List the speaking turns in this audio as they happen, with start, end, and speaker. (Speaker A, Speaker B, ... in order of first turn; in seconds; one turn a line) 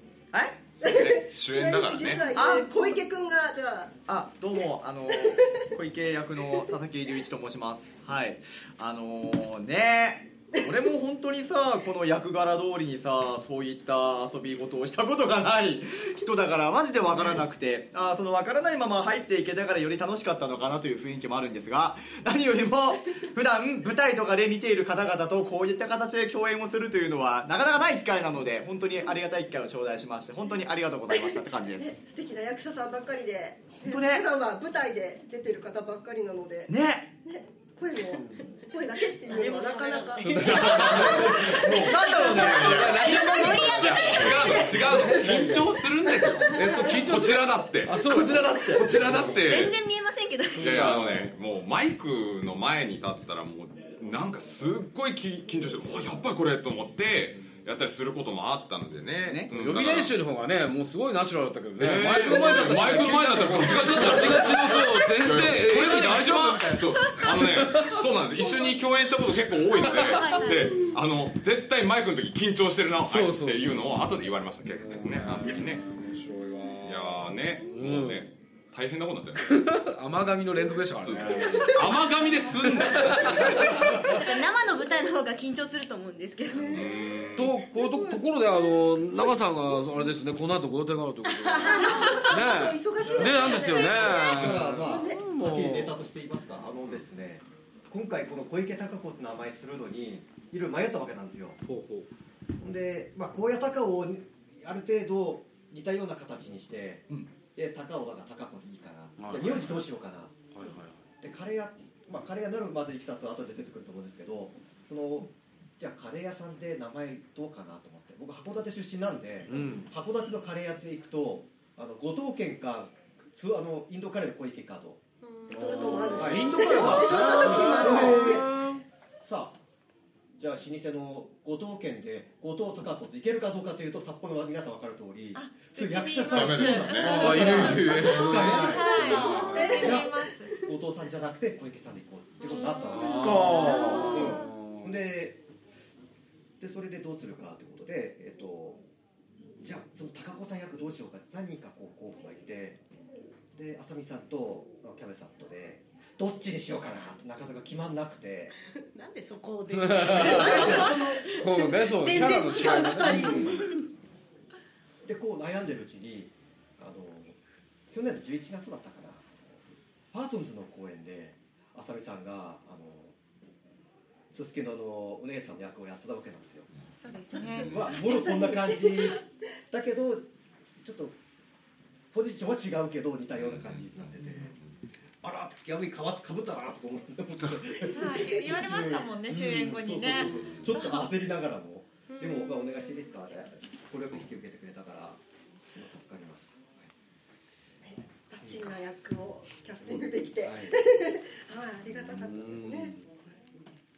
Speaker A: 0.3-0.8
Speaker B: 0.8-2.3
Speaker C: 0.8-4.0
Speaker A: 2.3-3.0
Speaker A: 4.1-31.9
Speaker C: 5.1-5.7
Speaker C: 31.1-45.5
Speaker A: 33.8-34.2
Speaker A: 36.7-37.1
Speaker D: 39.2-42.2
Speaker E: 40.3-41.7
Speaker B: 40.4-41.5
Speaker A: 40.9-45.7
Speaker F: 42.3-44.9
Speaker E: 42.5-45.6
Speaker B: 42.5-42.8
Speaker B: 44.0-48.1
Speaker E: 46.5-49.5
Speaker A: 48.0-49.2
Speaker B: 48.7-49.8
Speaker F: 49.4-50.8
Speaker B: 50.6-60.1
Speaker A: 50.6-51.3
Speaker E: 50.7-51.2
Speaker A: 59.2-59.5
Speaker E: 59.5-68.0
Speaker B: 61.8-75.8
Speaker A: 63.9-64.4
Speaker E: 69.8-70.3
Speaker F: 69.9-70.8
Speaker E: 73.0-74.1
Speaker E: 74.8-78.2
Speaker B: 76.8-79.6
Speaker E: 79.4-81.9
Speaker B: 81.0-84.2
Speaker E: 82.7-84.0
Speaker F: 83.8-87.0
Speaker C: 86.6-86.9
Speaker B: 86.7-87.6
Speaker E: 87.3-96.0
Speaker C: 87.7-88.2
Speaker D: 91.3-92.2
Speaker C: 91.6-95.2
Speaker G: 93.0-101.6
Speaker E: 101.7-102.1
Speaker G: 102.6-110.5
Speaker E: 109.2-109.9
Speaker E: 110.5-111.0
Speaker G: 111.2-125.0
Speaker E: 119.5-119.9
Speaker D: 125.2-126.2
Speaker C: 125.5-128.5
Speaker E: 125.5-128.8
Speaker G: 125.9-128.5
Speaker G: 129.2-129.6
Speaker G: 130.4-140.1
Speaker H: 135.6-140.6
Speaker B: 136.3-138.1
Speaker E: 137.0-139.5
Speaker C: 137.2-140.5
Speaker G: 140.6-143.4
Speaker D: 142.4-143.3
Speaker E: 142.9-144.9
Speaker A: 143.1-144.2
Speaker H: 143.6-144.5
Speaker G: 144.0-145.4
Speaker G: 146.6-148.8
Speaker G: 149.6-152.8
Speaker G: 153.5-158.5
Speaker D: 158.9-163.8
Speaker E: 159.7-163.7
Speaker G: 160.1-161.0
Speaker G: 165.0-167.4
Speaker G: 167.9-173.2
Speaker G: 174.3-176.7
Speaker H: 177.0-178.3
Speaker G: 177.3-180.3
Speaker C: 178.1-178.9
Speaker G: 180.8-181.2
Speaker G: 182.1-184.5
Speaker B: 183.5-183.8
Speaker G: 185.2-195.2
Speaker H: 187.9-191.1
Speaker D: 192.1-192.7
Speaker G: 195.7-196.9
Speaker C: 197.9-203.0
Speaker G: 200.4-200.8
Speaker E: 202.2-202.9